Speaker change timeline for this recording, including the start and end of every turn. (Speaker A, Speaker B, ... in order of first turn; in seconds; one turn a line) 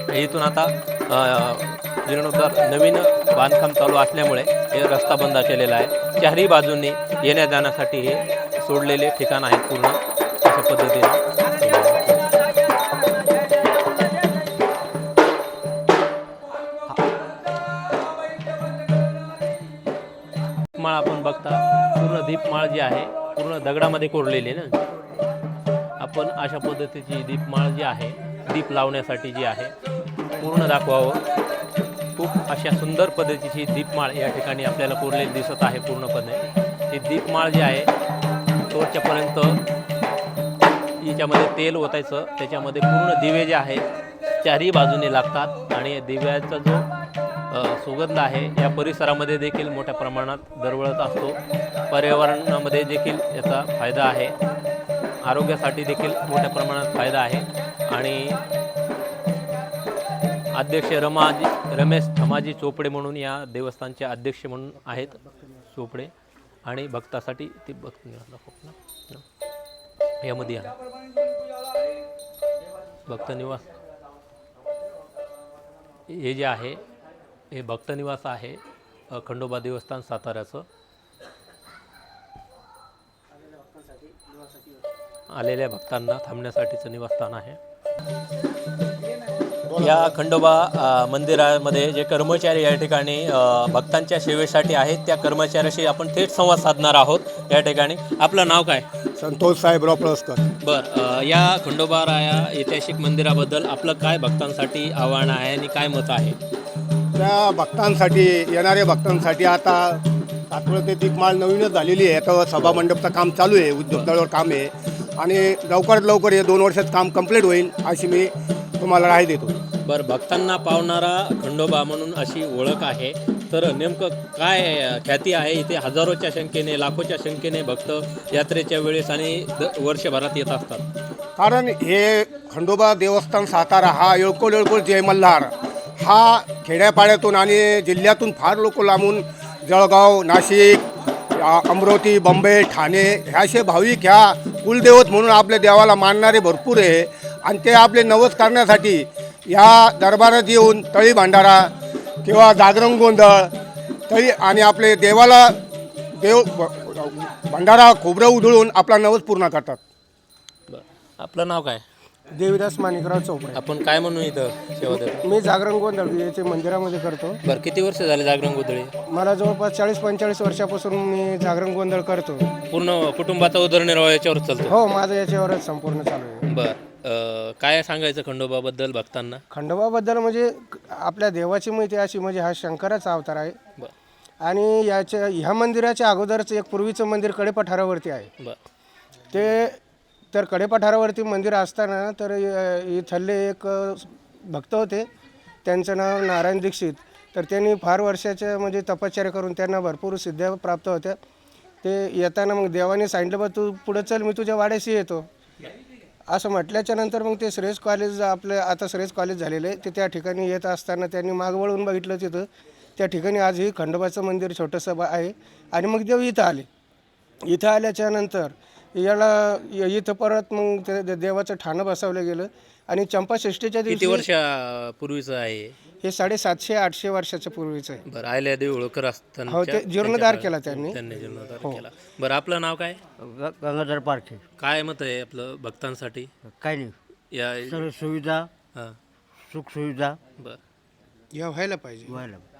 Speaker A: 0.1-12.4
Speaker A: 20.8-24.8
Speaker A: 26.0-29.7
Speaker A: 30.3-31.2
Speaker A: 32.1-37.9
Speaker A: 38.6-39.6
Speaker A: 41.0-43.8
Speaker A: 44.4-46.9
Speaker A: 47.5-51.4
Speaker A: 51.9-54.3
Speaker A: 55.2-58.4
Speaker A: 60.5-66.1
Speaker A: 66.7-69.2
Speaker A: 70.2-70.7
Speaker A: 73.1-73.7
Speaker A: 76.1-76.8
Speaker A: 77.5-80.7
Speaker A: 85.3-87.6
Speaker B: 89.7-90.1
Speaker A: 89.8-98.9
Speaker B: 99.2-100.5
Speaker A: 100.6-106.4
Speaker B: 107.1-119.5
Speaker A: 119.8-130.9
Speaker B: 131.4-140.8
Speaker B: 141.3-151.7
Speaker B: 152.2-153.5
Speaker B: 154.1-159.8
Speaker A: 160.7-161.8
Speaker C: 162.3-163.6
Speaker A: 163.5-165.2
Speaker C: 164.8-167.4
Speaker A: 167.4-168.9
Speaker C: 169.1-172.5
Speaker A: 172.7-174.8
Speaker C: 174.7-176.4
Speaker A: 176.5-179.4
Speaker C: 179.5-183.6
Speaker C: 184.4-188.3
Speaker C: 189.3-189.8
Speaker C: 190.3-195.1
Speaker C: 195.6-201.2
Speaker C: 201.8-205.3
Speaker C: 206.3-216.7
Speaker C: 217.5-224.2
Speaker A: 223.9-225.8
Speaker C: 226.0-228.0
Speaker A: 228.1-233.0
Speaker C: 229.5-231.0
Speaker D: 233.2-234.4
Speaker A: 234.6-236.3
Speaker D: 236.5-236.9
Speaker A: 237.3-237.8
Speaker D: 237.6-238.5
Speaker D: 239.4-240.2
Speaker C: 241.3-242.2
Speaker D: 242.1-242.4